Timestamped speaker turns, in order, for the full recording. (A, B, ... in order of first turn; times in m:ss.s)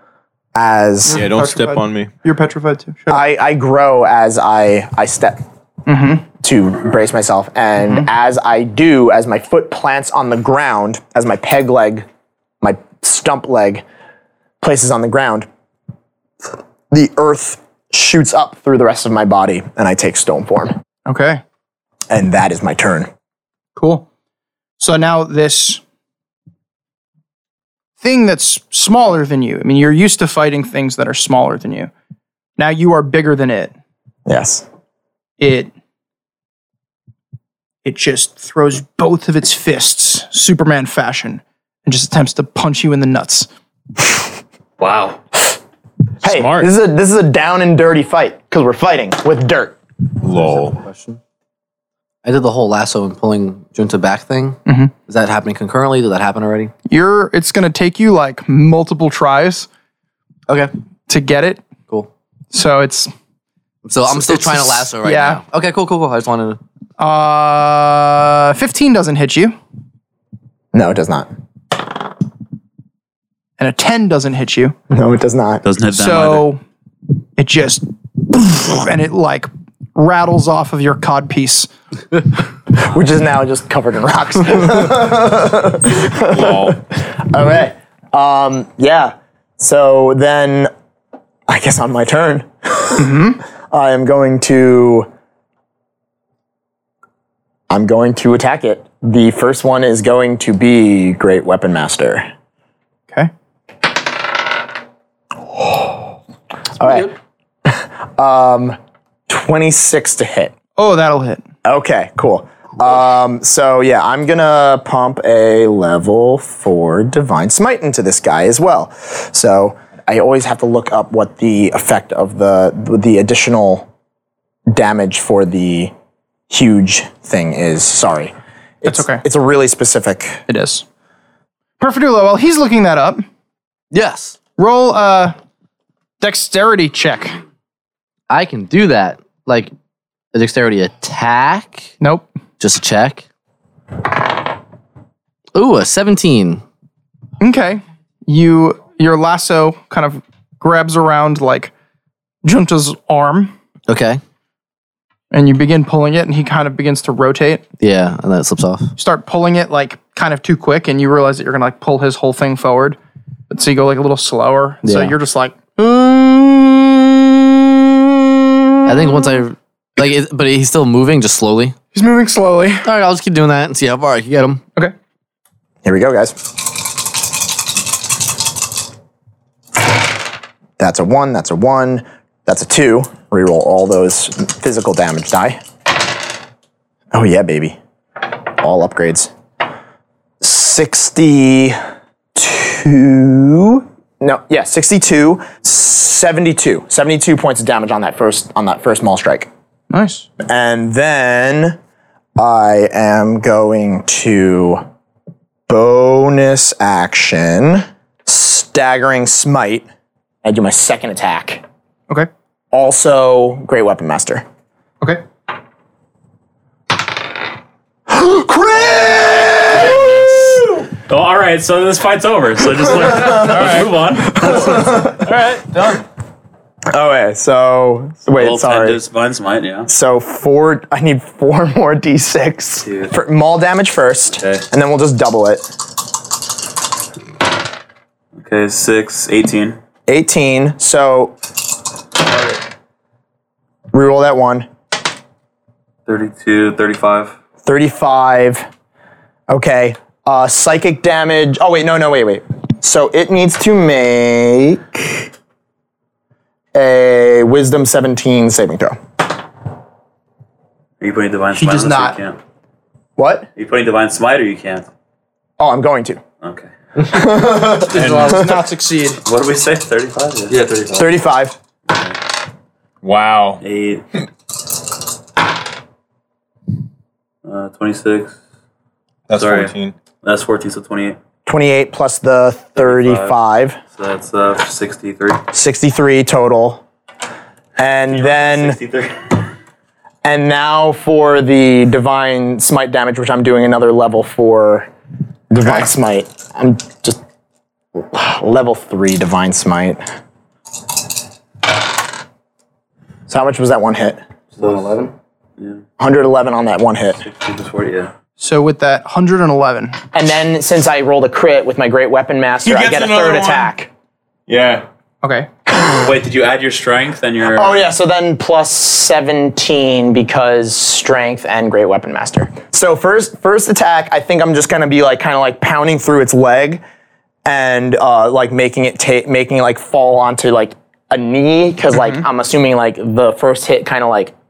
0:00.6-0:01.2 A
0:01.1-0:03.2 B
0:01.1-0:02.1 C
0:03.1-0:05.4 A
0:05.9-0:06.2 B
0:06.4-0:12.1 A
0:07.8-0:08.1 B
0:12.6-0:13.8 A
0:14.6-0:15.5 A
0:16.9-0:20.7 A
0:21.1-0:21.4 B
0:22.1-0:23.1 A
0:23.8-0:24.1 B
0:24.8-0:25.8 B
0:28.0-0:31.9 B
0:32.6-0:33.7 B
0:34.3-0:34.6 A
0:35.4-0:35.7 B
0:37.8-0:43.5 B
0:44.8-0:45.2 D
0:46.2-0:49.8 A
0:46.2-0:46.7 C
0:50.2-0:50.8 C
0:50.3-0:51.2 E
0:52.2-0:56.7 E
0:54.7-0:54.9 B
0:56.9-0:59.7 B
1:01.1-1:01.6 B
1:02.5-1:03.1 B
1:03.8-1:06.6 E
1:04.1-1:05.4 B
1:07.0-1:09.6 B
1:10.7-1:11.3 A
1:13.6-1:14.7 B
1:14.9-1:15.6 A
1:15.6-1:16.5 D
1:15.9-1:16.6 B
1:17.4-1:21.7 B
1:22.7-1:30.7 A
1:26.2-1:26.8 C
1:31.5-1:35.1 A
1:33.0-1:33.4 B
1:37.7-1:42.3 A
1:45.5-1:46.1 A
1:46.8-1:48.8 A
1:49.3-1:50.5 A
1:50.8-1:51.4 B
1:51.6-2:03.9 A
2:04.7-2:05.9 A
2:06.5-2:10.4 A
2:08.8-2:09.2 B
2:10.5-2:10.8 B
2:11.8-2:13.2 B
2:13.9-2:14.4 E
2:14.6-2:15.3 B
2:16.2-2:17.4 B
2:18.3-2:19.7 E
2:20.3-2:21.9 E
2:22.0-2:22.3 B
2:22.6-2:23.2 E
2:25.6-2:26.6 E
2:27.4-2:31.7 B
2:32.4-2:33.5 B
2:33.9-2:34.2 E
2:35.3-2:37.6 B
2:37.8-2:38.9 E
2:39.0-2:43.0 B
2:43.5-2:45.8 B
2:44.8-2:45.1 E
2:48.8-2:51.8 E
2:51.9-2:52.8 B
2:52.8-2:54.6 E
2:55.8-2:56.4 A
3:00.8-3:05.6 A
3:07.1-3:07.8 A
3:08.6-3:09.3 A
3:10.4-3:11.8 A
3:12.3-3:19.5 A
3:19.9-3:20.3 B
3:20.4-3:21.8 A
3:22.4-3:24.8 A
3:25.7-3:29.9 A
3:30.4-3:31.6 A
3:32.7-3:34.4 A
3:38.1-3:40.6 A
3:41.0-3:45.0 D
3:43.1-3:43.4 A
3:43.4-3:46.1 C
3:44.3-3:45.2 A
3:46.9-3:49.0 A
3:48.4-3:49.9 D
3:49.9-3:55.7 A
3:52.8-3:53.1 D
3:54.3-3:54.6 D
3:58.3-3:59.8 D
4:00.1-4:01.4 A
4:03.9-4:04.7 A
4:06.1-4:07.3 D
4:07.6-4:08.7 A
4:09.5-4:15.3 A
4:16.7-4:19.0 A
4:21.0-4:22.4 D
4:21.5-4:22.2 B
4:23.2-4:23.5 A
4:23.6-4:24.9 D
4:25.6-4:26.2 A
4:26.4-4:26.7 D
4:27.0-4:28.6 A
4:27.7-4:29.2 B
4:27.9-4:28.4 C
4:29.2-4:30.7 D
4:30.5-4:31.0 C
4:30.9-4:31.6 A
4:33.0-4:33.6 C
4:33.6-4:34.0 D
4:37.4-4:38.4 D
4:39.3-4:39.9 C
4:39.3-4:41.2 D
4:41.4-4:43.8 A
4:42.8-4:43.3 D
4:43.9-4:45.4 D
4:45.5-4:46.8 A
4:47.8-4:48.8 A
4:48.1-4:49.3 D
4:50.2-4:54.9 A
4:55.5-4:57.2 A
4:57.9-5:00.0 A
5:03.3-5:04.2 A
5:06.0-5:07.2 A
5:07.2-5:08.1 D
5:08.4-5:10.0 B
5:10.1-5:13.9 A
5:12.6-5:13.7 C
5:14.5-5:14.8 C
5:15.2-5:15.5 B
5:15.7-5:16.1 A
5:15.9-5:17.8 D
5:17.4-5:26.8 A
5:27.4-5:34.4 A
5:32.0-5:32.2 B